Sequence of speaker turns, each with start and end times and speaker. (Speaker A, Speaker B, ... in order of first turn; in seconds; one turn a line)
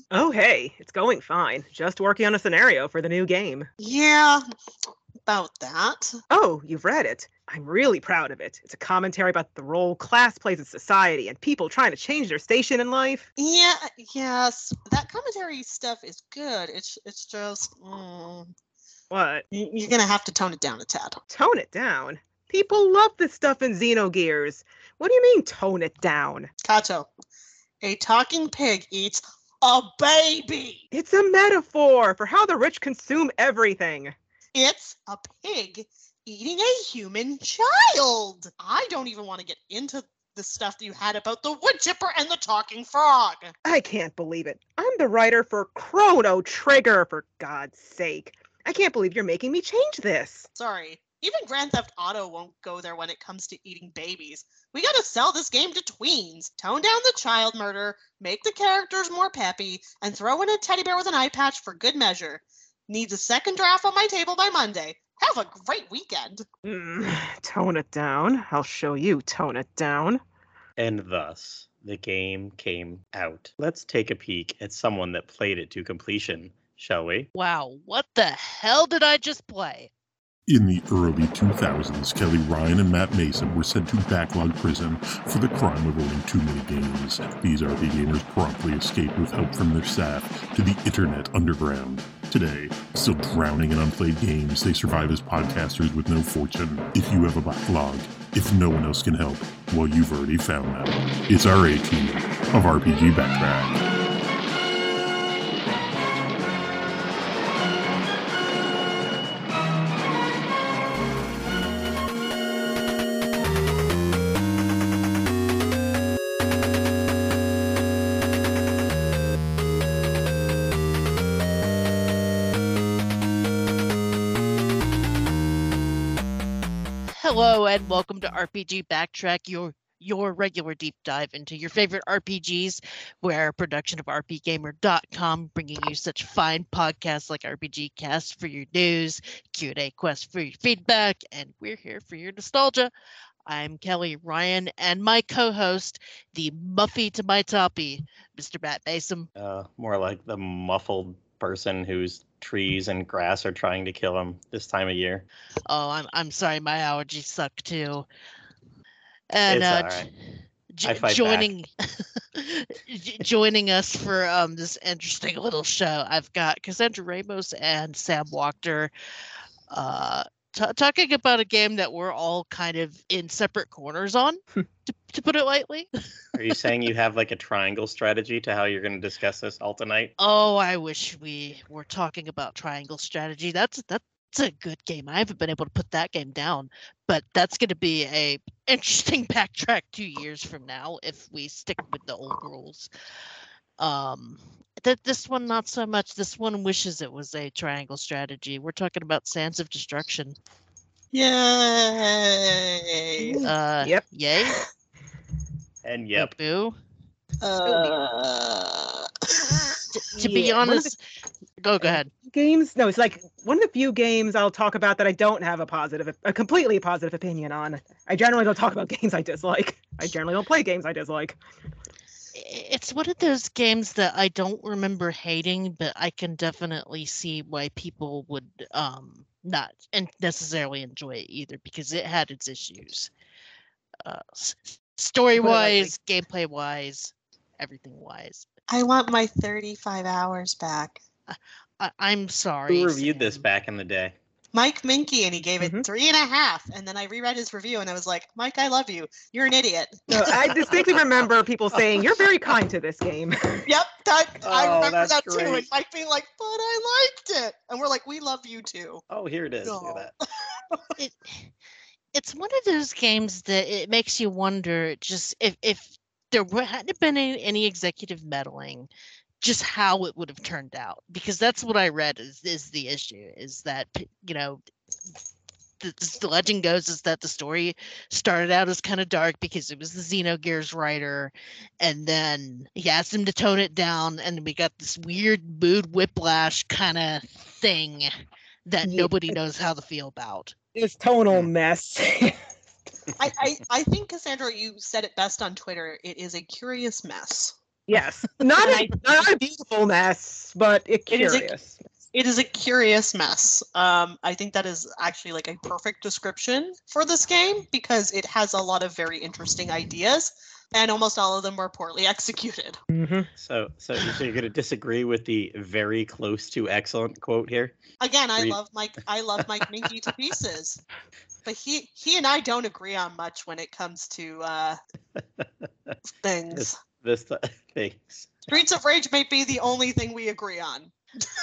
Speaker A: 0.1-3.7
Speaker B: 3.8-4.4
Speaker B: 5.3-6.2
Speaker A: 6.3-13.2
Speaker B: 13.4-18.5
Speaker A: 19.1-19.4
Speaker B: 19.5-21.2
Speaker A: 21.3-26.5
Speaker B: 26.6-27.1
Speaker B: 27.8-30.8
Speaker A: 30.9-34.1
Speaker B: 34.5-43.5
Speaker A: 43.6-50.5
Speaker B: 50.5-66.4
Speaker A: 66.6-70.2
Speaker C: 70.8-77.3
Speaker D: 77.3-79.9
Speaker E: 80.5-103.9
Speaker D: 127.1-142.9
Speaker D: 143.4-149.3
Speaker C: 149.4-155.2
Speaker D: 155.7-158.1
Speaker D: 159.3-160.1
Speaker C: 159.5-160.1
Speaker D: 160.7-168.9
Speaker C: 160.8-161.5
Speaker D: 169.7-175.9
Speaker C: 176.3-180.1
Speaker D: 180.2-192.9
Speaker D: 193.8-200.3
Speaker B: 201.1-203.4
Speaker A: 203.2-204.6
Speaker D: 203.4-204.6
Speaker C: 205.8-206.3
Speaker D: 206.1-206.7
Speaker B: 207.4-209.6
Speaker A: 207.6-207.9
Speaker D: 209.9-211.0
Speaker A: 210.2-210.9
Speaker D: 211.6-212.1
Speaker A: 211.8-221.4
Speaker D: 222.3-233.1
Speaker D: 234.0-238.4
Speaker A: 235.4-235.9
Speaker B: 238.7-241.0
Speaker D: 241.3-243.4
Speaker C: 242.7-244.1
Speaker B: 244.5-250.5
Speaker A: 250.1-253.6
Speaker C: 250.7-251.0
Speaker B: 253.7-259.0
Speaker C: 254.4-255.7
Speaker C: 259.1-260.1
Speaker B: 259.6-260.8
Speaker D: 261.0-261.5
Speaker D: 262.1-268.9
Speaker D: 269.4-274.6
Speaker D: 275.8-288.1
Speaker D: 288.6-290.5
Speaker A: 288.8-289.3
Speaker A: 290.7-292.4
Speaker B: 293.2-297.5
Speaker A: 297.9-301.8
Speaker B: 298.6-298.9
Speaker B: 301.1-301.5
Speaker B: 302.1-312.8
Speaker A: 312.9-313.3
Speaker C: 313.4-317.8
Speaker B: 318.0-320.8
Speaker B: 321.4-324.8
Speaker C: 325.2-325.5
Speaker B: 326.2-326.8
Speaker C: 326.5-328.6
Speaker B: 328.5-330.9